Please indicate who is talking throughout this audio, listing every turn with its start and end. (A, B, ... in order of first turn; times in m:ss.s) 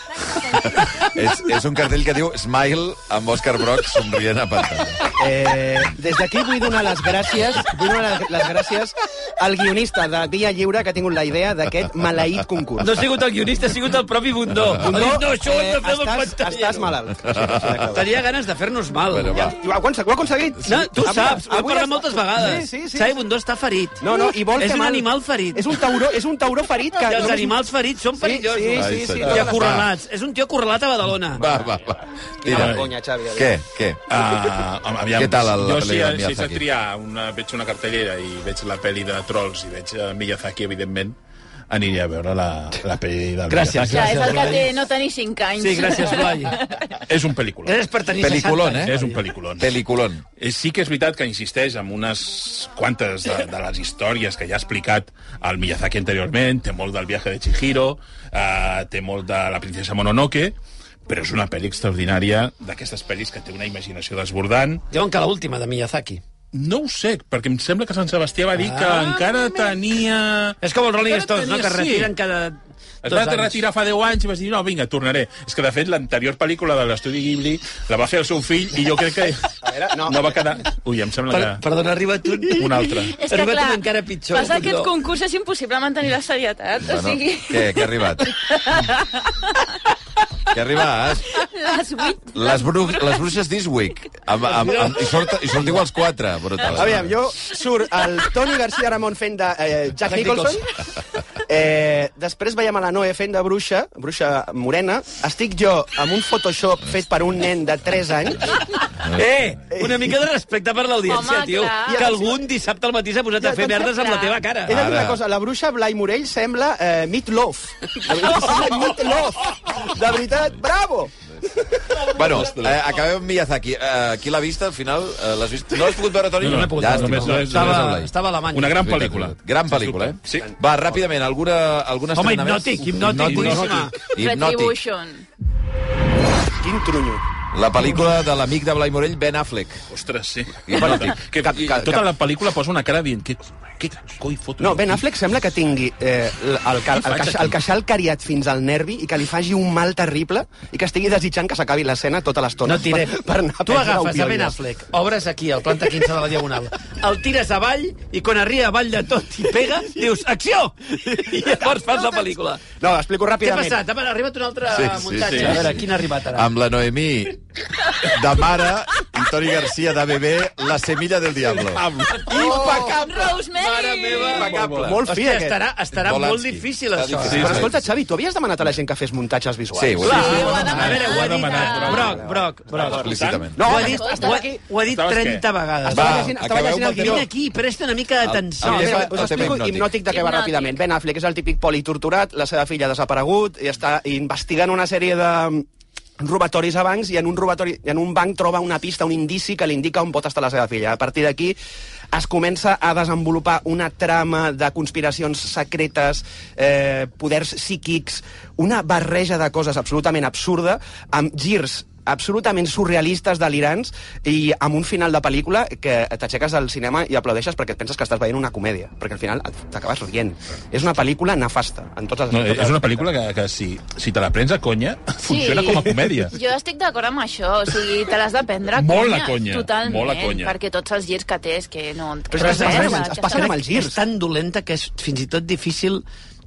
0:00.8-0:05.0 A
0:05.2-0:13.0 B
0:12.8-0:16.9 C
0:14.8-0:18.2 B
0:17.9-0:19.5 C
0:19.1-0:19.6 A
0:19.5-0:23.1 B
0:20.6-0:25.8 C
0:24.0-0:27.6 B
0:27.0-0:31.4 C
0:28.2-0:29.8 B
0:28.8-0:29.9 A
0:31.4-0:34.0 A
0:32.4-0:33.5 B
0:32.5-0:32.9 D
0:34.1-0:41.2 D
0:35.1-0:36.6 A
0:41.7-0:44.4 D
0:43.5-0:44.7 C
0:43.9-0:47.0 E
0:45.6-0:46.6 C
0:47.1-0:47.8 D
0:47.6-0:49.2 C
0:48.2-0:49.0 A
0:48.9-0:49.7 D
0:49.6-0:50.2 A
0:50.4-1:00.6 D
1:01.1-1:04.8 D
1:04.9-1:06.2 C
1:06.5-1:12.1 D
1:08.6-1:09.3 C
1:10.6-1:13.6 C
1:13.0-1:21.6 D
1:19.6-1:20.4 B
1:21.3-1:24.9 C
1:22.5-1:23.2 D
1:23.1-1:29.6 E
1:26.8-1:28.4 A
1:30.5-1:31.4 A
1:31.3-1:33.2 E
1:32.3-1:37.2 A
1:34.4-1:35.1 C
1:36.7-1:40.6 B
1:40.0-1:40.6 C
1:41.5-1:48.8 B
1:49.1-1:54.7 C
1:49.8-1:50.1 B
1:51.0-1:52.3 E
1:51.9-1:52.2 B
1:53.4-1:53.8 B
1:53.8-1:54.4 E
1:54.7-2:01.1 B
1:54.7-1:55.2 A
2:02.0-2:08.1 A
2:02.2-2:02.8 D
2:06.4-2:10.5 D
2:06.4-2:08.8 C
2:08.8-2:14.8 A
2:12.2-2:13.9 C
2:13.0-2:13.9 D
2:14.2-2:15.3 E
2:16.6-2:17.2 B
2:17.5-2:19.8 A
2:19.9-2:25.0 D
2:20.7-2:21.2 A
2:20.8-2:22.1 B
2:24.6-2:34.6 B
2:27.0-2:27.6 D
2:32.6-2:42.6 C
2:42.8-2:43.8 B
2:43.4-2:46.5 C
2:44.7-2:47.4 A
2:45.3-2:45.7 D
2:48.0-2:53.2 A
2:51.6-2:52.3 D
2:52.3-2:54.5 E
2:52.3-2:52.9 C
2:52.4-2:52.9 B
2:53.5-2:54.5 C
2:54.3-2:55.4 A
2:54.4-2:55.0 D
2:54.5-2:55.6 B
2:55.1-2:57.6 C
2:55.9-2:57.8 A
2:57.2-2:57.7 D
2:57.4-3:00.7 B
2:59.7-3:00.7 A
3:00.0-3:03.1 C
3:00.1-3:03.5 D
3:00.1-3:02.2 E
3:02.1-3:02.4 B
3:02.8-3:03.6 A
3:03.6-3:04.6 B
3:03.6-3:09.5 C
3:03.7-3:04.5 E
3:04.9-3:05.5 D
3:05.8-3:07.3 B
3:05.9-3:07.3 A
3:08.2-3:09.9 A
3:08.6-3:15.6 B
3:10.1-3:10.8 E
3:16.2-3:21.6 B
3:22.1-3:43.1 B
3:42.3-3:46.4 D
3:45.2-3:53.6 E
3:48.8-3:50.6 D
3:52.3-3:54.0 B
3:52.3-3:56.0 C